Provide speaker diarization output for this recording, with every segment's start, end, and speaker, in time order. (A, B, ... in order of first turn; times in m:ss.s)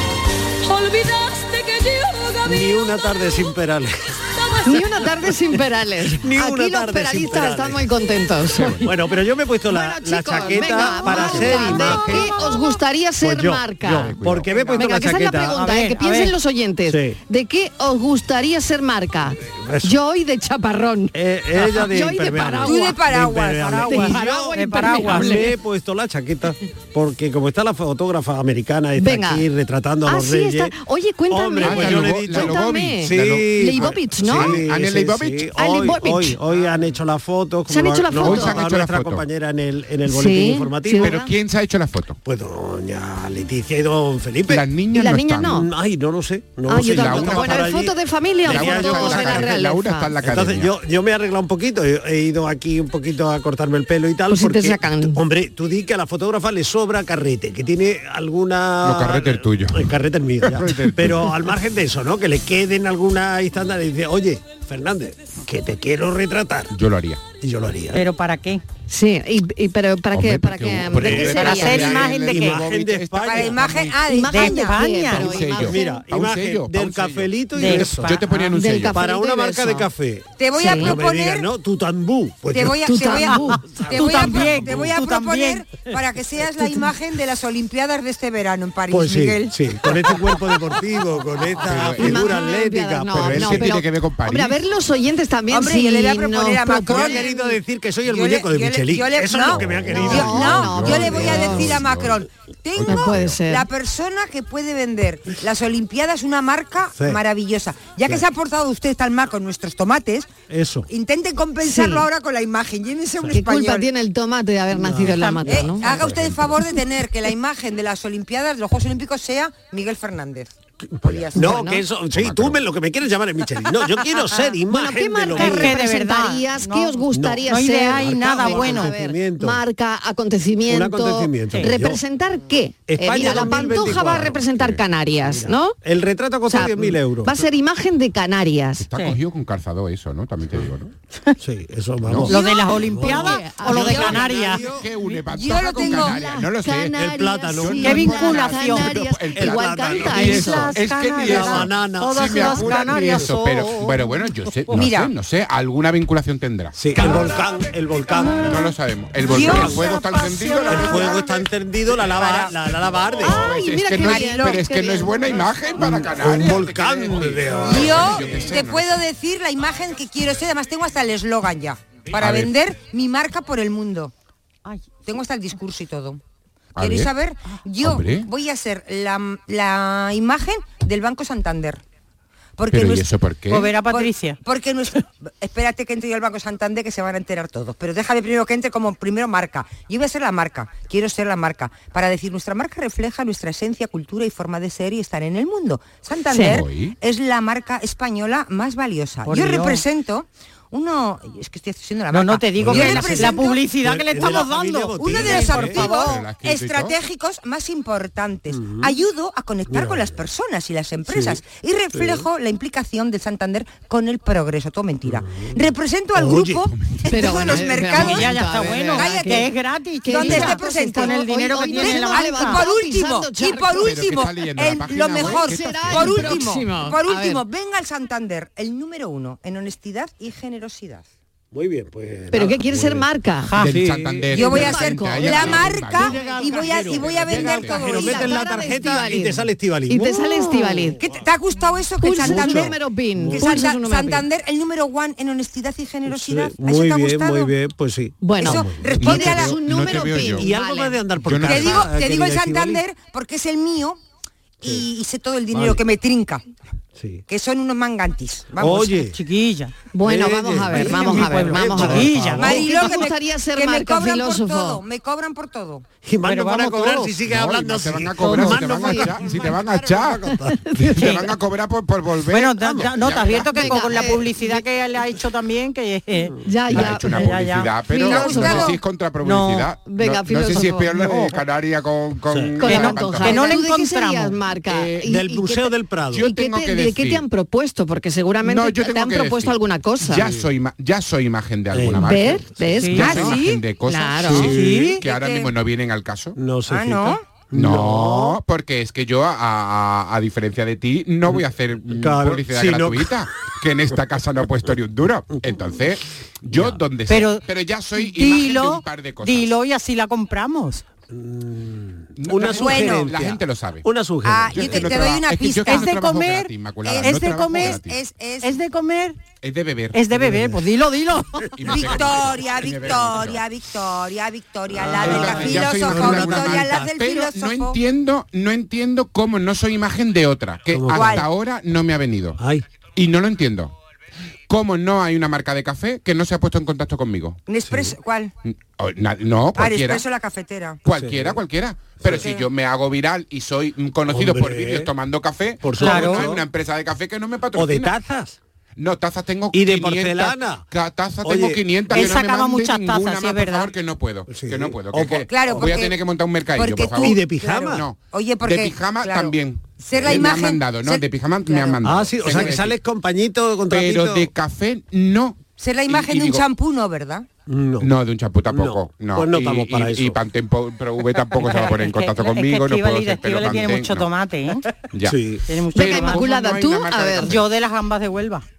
0:00.6-0:03.4 A
0:02.4-0:03.9 B
0:04.2-0:05.1 A
0:04.6-0:08.8 C
0:06.1-0:07.9 B
0:08.6-0:08.9 D
0:08.8-0:12.5 B
0:09.7-0:14.2 C
0:13.2-0:15.6 B
0:13.9-0:14.7 D
0:14.8-0:23.0 C
0:15.5-0:16.3 E
0:16.9-0:17.2 B
0:19.5-0:20.0 B
0:21.1-0:30.8 B
0:22.6-0:23.9 F
0:23.6-0:25.5 E
0:23.9-0:25.5 C
0:29.0-0:29.5 C
0:30.1-0:34.6 C
0:31.3-0:41.2 B
0:31.6-0:35.5 D
0:35.6-0:36.4 C
0:37.7-0:38.6 C
0:38.1-0:39.2 D
0:40.1-0:41.3 C
0:41.0-0:42.2 D
0:42.2-0:44.7 B
0:44.5-0:45.6 D
0:44.9-0:45.7 C
0:45.5-0:47.9 B
0:46.7-0:50.1 C
0:46.7-0:47.8 D
0:48.4-0:50.7 D
0:48.4-0:49.5 B
0:50.2-1:06.7 B
0:54.3-0:55.2 C
0:58.8-0:59.9 D
1:00.4-1:01.4 D
1:06.7-1:07.2 D
1:07.4-1:08.0 B
1:07.9-1:08.6 E
1:08.9-1:11.9 C
1:10.1-1:13.9 D
1:11.0-1:13.7 B
1:11.2-1:12.6 E
1:13.3-1:14.9 F
1:14.1-1:16.0 C
1:14.2-1:15.5 E
1:15.1-1:19.0 D
1:15.5-1:18.2 B
1:17.5-1:18.5 E
1:18.6-1:19.9 C
1:18.9-1:23.1 B
1:20.4-1:21.5 F
1:20.6-1:21.0 C
1:22.5-1:30.2 F
1:22.8-1:23.6 C
1:23.3-1:25.9 E
1:24.1-1:24.5 B
1:28.9-1:33.7 B
1:31.6-1:32.4 D
1:32.0-1:37.3 C
1:33.1-1:34.6 D
1:35.5-1:50.3 F
1:36.8-1:41.6 B
1:39.4-1:42.2 D
1:39.9-1:41.8 C
1:42.8-1:43.4 D
1:42.8-1:43.7 C
1:50.5-1:50.9 B
1:50.9-1:53.9 F
1:51.6-1:52.1 C
1:53.3-1:55.9 C
1:54.7-1:56.6 B
1:55.2-1:55.5 E
1:55.5-2:01.7 F
2:00.8-2:05.8 B
2:01.4-2:01.8 C
2:02.1-2:02.6 D
2:04.7-2:15.8 C
2:05.3-2:08.9 E
2:07.1-2:09.6 B
2:10.7-2:12.0 B
2:12.9-2:14.5 B
2:13.6-2:14.8 D
2:15.2-2:17.4 B
2:16.5-2:18.8 C
2:18.8-2:20.9 D
2:21.4-2:24.9 B
2:22.0-2:22.4 D
2:22.3-2:24.6 E
2:22.3-2:24.2 C
2:24.0-2:27.0 D
2:25.3-2:26.2 F
2:25.8-2:30.7 C
2:26.9-2:33.7 B
2:27.5-2:37.3 D
2:27.8-2:29.0 E
2:30.1-2:33.6 E
2:34.7-2:35.1 F
2:36.8-2:38.7 B
2:38.4-2:41.2 D
2:39.3-2:41.3 F
2:39.3-2:39.9 B
2:40.7-2:43.5 B
2:42.0-2:42.5 F
2:43.2-2:45.3 C
2:43.3-2:49.0 D
2:44.0-2:44.6 F
2:45.8-2:48.4 B
2:47.6-2:54.1 F
2:52.2-2:52.5 D
2:55.0-2:56.2 F
2:56.8-2:57.1 D
2:56.8-3:01.8 F
2:57.8-2:58.3 D
3:02.6-3:03.1 F
3:02.7-3:03.7 D
3:03.5-3:04.4 E
3:03.9-3:23.6 F
3:16.4-3:17.0 D
3:19.3-3:19.8 E
3:22.1-3:26.1 E
3:22.6-3:25.9 B
3:25.0-3:38.3 F
3:25.6-3:27.0 D
3:28.5-3:29.0 B
3:29.7-3:30.2 B
3:31.1-3:31.4 B
3:31.9-3:32.3 B
3:35.0-3:35.6 B
3:36.2-3:36.7 B
3:37.1-3:39.5 C
3:37.9-3:42.6 E
3:39.0-3:39.5 F
3:40.0-3:43.9 C
3:40.1-3:51.1 F
3:43.7-3:46.5 D
3:45.2-3:47.4 C
3:51.5-3:53.1 B
3:52.3-3:53.5 C
3:53.5-3:53.8 E
3:53.6-3:58.1 D
3:53.6-3:54.6 B
3:54.3-3:58.4 F
3:54.4-3:55.6 C
3:55.4-4:01.1 B
3:56.2-3:57.0 E
3:57.8-4:01.0 C
4:01.0-4:02.8 F
4:02.0-4:04.3 C
4:02.2-4:03.6 B
4:03.3-4:07.5 F
4:06.1-4:09.6 B
4:08.2-4:11.0 C
4:08.4-4:09.6 F
4:09.0-4:10.5 D
4:10.3-4:12.8 B
4:11.2-4:12.0 D
4:11.4-4:14.0 F
4:14.6-4:16.4 F
4:15.5-4:15.8 B
4:17.0-4:17.2 B
4:17.3-4:19.0 F
4:18.6-4:19.2 B
4:19.1-4:19.7 E
4:19.9-4:24.8 C
4:20.0-4:22.7 B
4:20.7-4:22.7 E
4:22.4-4:25.9 F
4:26.0-4:30.6 B
4:26.2-4:27.2 E
4:27.2-4:33.8 D
4:28.6-4:29.1 C
4:30.6-4:31.3 C
4:32.3-4:37.7 E
4:33.6-4:34.6 C
4:36.5-4:37.3 C
4:36.7-4:43.6 D
4:38.0-4:38.8 F
4:38.0-4:38.7 C
4:39.2-4:39.7 E
4:39.9-4:41.0 C
4:41.0-4:41.3 B
4:42.3-4:42.6 B
4:42.6-4:50.3 C
4:42.6-4:44.4 E
4:44.7-4:45.1 D
4:45.0-4:46.3 B
4:46.1-4:47.2 D
4:48.4-4:56.4 D
4:51.7-4:52.4 B
4:52.0-4:54.5 C
4:52.8-4:53.3 E
4:53.1-4:53.5 F
4:54.2-4:55.0 B
4:54.4-4:55.0 E
4:55.0-4:55.5 F
4:56.4-4:58.4 B
4:56.7-4:57.2 F
4:57.5-5:09.6 D
5:01.3-5:03.2 B
5:06.5-5:06.8 B
5:07.1-5:07.4 E
5:08.0-5:10.8 E
5:11.1-5:15.2 B
5:12.2-5:13.9 D
5:12.5-5:13.1 F
5:14.2-5:15.9 F
5:14.5-5:18.0 D
5:15.7-5:17.8 E
5:16.8-5:18.6 F
5:18.4-5:19.2 E
5:19.4-5:20.0 D
5:19.9-5:21.9 E
5:20.1-5:20.6 B
5:21.6-5:23.4 D
5:21.7-5:27.8 F
5:24.8-5:26.8 B
5:24.8-5:32.4 D
5:30.7-5:31.2 B
5:30.9-5:31.3 F
5:32.4-5:32.6 B
5:33.0-5:33.7 D
5:34.5-5:37.4 D
5:37.5-5:38.3 F
5:38.5-5:40.0 D
5:39.6-5:40.8 F
5:40.8-5:48.0 D
5:40.9-5:41.4 B
5:42.0-5:42.3 B
5:42.2-5:42.5 F
5:44.1-5:44.9 B
5:45.6-5:46.4 B
5:45.8-5:46.3 E
5:47.6-5:48.4 B
5:48.8-6:02.8 D
5:49.5-5:50.6 B
5:51.2-5:52.0 B
5:51.9-5:53.7 E
5:54.3-5:55.7 B
5:55.3-5:56.0 F
5:56.6-6:02.6 F
5:57.0-5:57.8 B
6:00.0-6:00.3 B
6:01.8-6:04.3 B
6:03.7-6:06.4 D
6:05.6-6:07.3 F
6:07.5-6:07.9 B
6:07.8-6:14.1 D
6:08.5-6:10.2 B
6:11.3-6:14.7 E
6:14.9-6:15.2 D
6:15.0-6:15.4 B
6:15.5-6:16.3 E
6:15.7-6:17.4 C
6:15.8-6:17.4 D
6:17.2-6:18.4 E